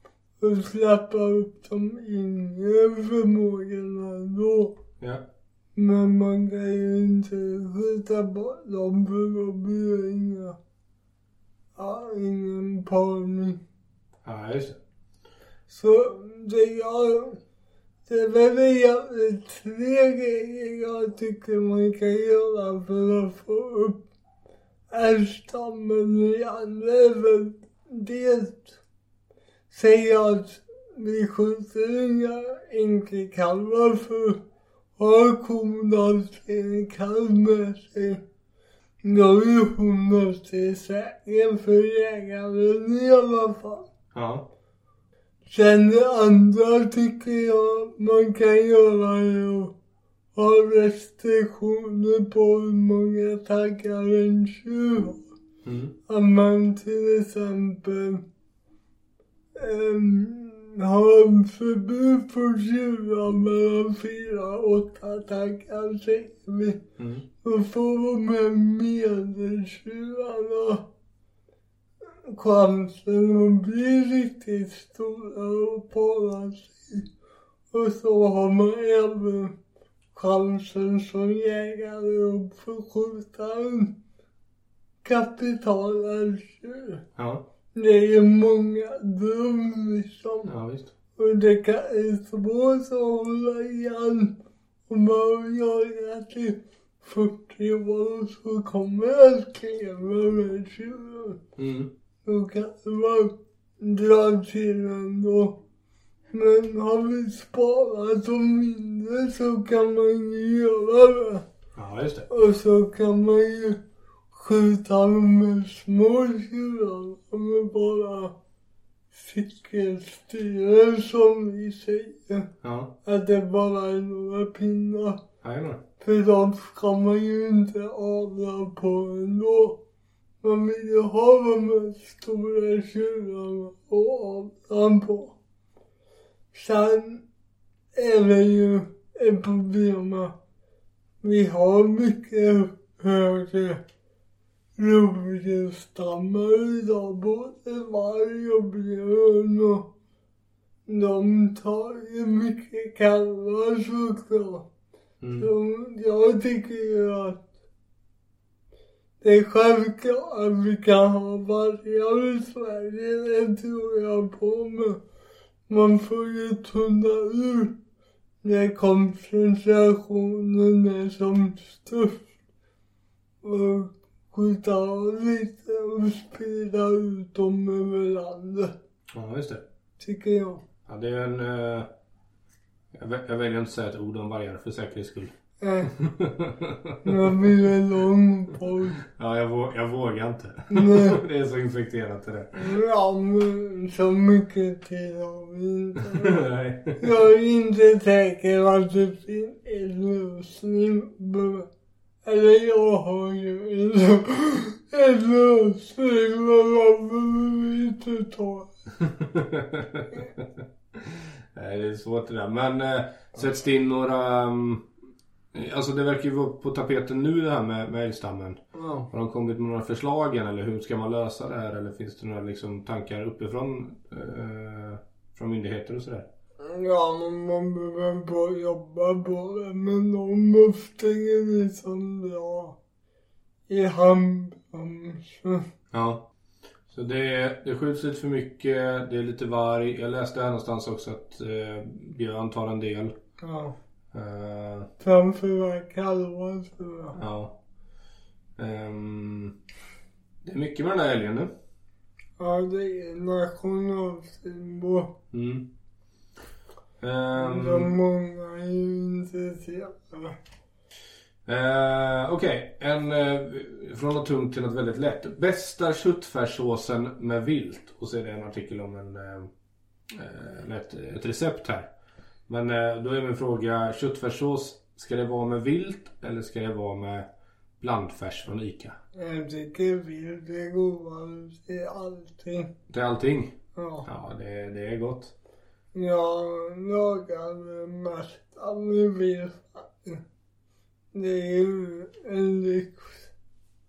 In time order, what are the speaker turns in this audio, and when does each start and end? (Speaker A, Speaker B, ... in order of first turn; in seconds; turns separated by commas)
Speaker A: 0.4-4.7, Speaker A: 5.7-10.6, Speaker A: 11.8-13.6, Speaker B: 14.2-14.8, Speaker A: 15.7-17.4, Speaker A: 18.1-24.0, Speaker A: 24.9-28.8, Speaker A: 29.7-34.4, Speaker A: 35.0-38.2, Speaker A: 39.0-43.9, Speaker B: 44.1-44.4, Speaker A: 45.5-49.7, Speaker A: 50.3-55.2, Speaker B: 55.6-55.9, Speaker A: 56.1-58.2, Speaker A: 59.5-66.8, Speaker B: 67.0-67.2, Speaker A: 67.4-70.8, Speaker A: 72.2-77.1, Speaker A: 77.7-79.5, Speaker A: 80.1-83.9, Speaker A: 85.0-87.0, Speaker B: 87.2-87.4, Speaker A: 87.7-90.5, Speaker B: 90.5-90.9, Speaker A: 91.2-94.3, Speaker A: 94.9-101.4, Speaker B: 101.6-101.9, Speaker A: 102.2-105.6, Speaker A: 106.3-111.4, Speaker B: 111.8-112.3, Speaker A: 112.3-113.8, Speaker A: 114.3-118.3, Speaker A: 119.1-122.5, Speaker B: 122.6-122.9, Speaker A: 123.0-125.2, Speaker B: 125.4-125.8, Speaker A: 126.0-129.8, Speaker A: 130.4-135.4, Speaker A: 136.5-137.2, Speaker A: 137.9-140.3, Speaker A: 141.2-143.8, Speaker A: 144.8-149.9, Speaker A: 150.9-154.7, Speaker B: 155.2-155.5, Speaker A: 155.3-157.4, Speaker A: 159.2-165.0, Speaker A: 165.7-167.8, Speaker A: 168.4-172.2, Speaker A: 173.4-178.7, Speaker B: 179.1-179.6, Speaker A: 180.0-180.6, Speaker B: 180.8-181.9, Speaker B: 182.9-185.3, Speaker A: 185.6-185.9, Speaker B: 185.8-187.5, Speaker A: 187.0-189.0, Speaker B: 189.0-192.8, Speaker A: 190.7-191.2, Speaker A: 192.6-196.4, Speaker B: 196.0-197.2, Speaker A: 197.0-201.7, Speaker A: 202.2-208.7, Speaker B: 209.0-214.9, Speaker B: 215.5-218.6, Speaker A: 218.7-219.1, Speaker B: 219.1-226.3, Speaker A: 226.6-232.8, Speaker A: 233.7-235.6, Speaker B: 235.9-236.2, Speaker B: 236.9-243.1, Speaker A: 243.4-243.7, Speaker B: 244.1-244.9, Speaker A: 245.0-247.2, Speaker B: 247.2-247.5, Speaker B: 248.6-249.6, Speaker B: 250.4-251.5, Speaker A: 252.4-255.1, Speaker B: 255.3-255.7, Speaker B: 257.0-257.9, Speaker A: 257.3-260.4, Speaker B: 261.4-269.5, Speaker B: 270.1-271.9, Speaker B: 272.5-277.3, Speaker B: 277.8-278.9, Speaker A: 279.1-282.7, Speaker B: 282.9-283.5, Speaker A: 283.7-284.1, Speaker B: 284.1-285.3, Speaker A: 285.9-290.2, Speaker A: 291.1-293.3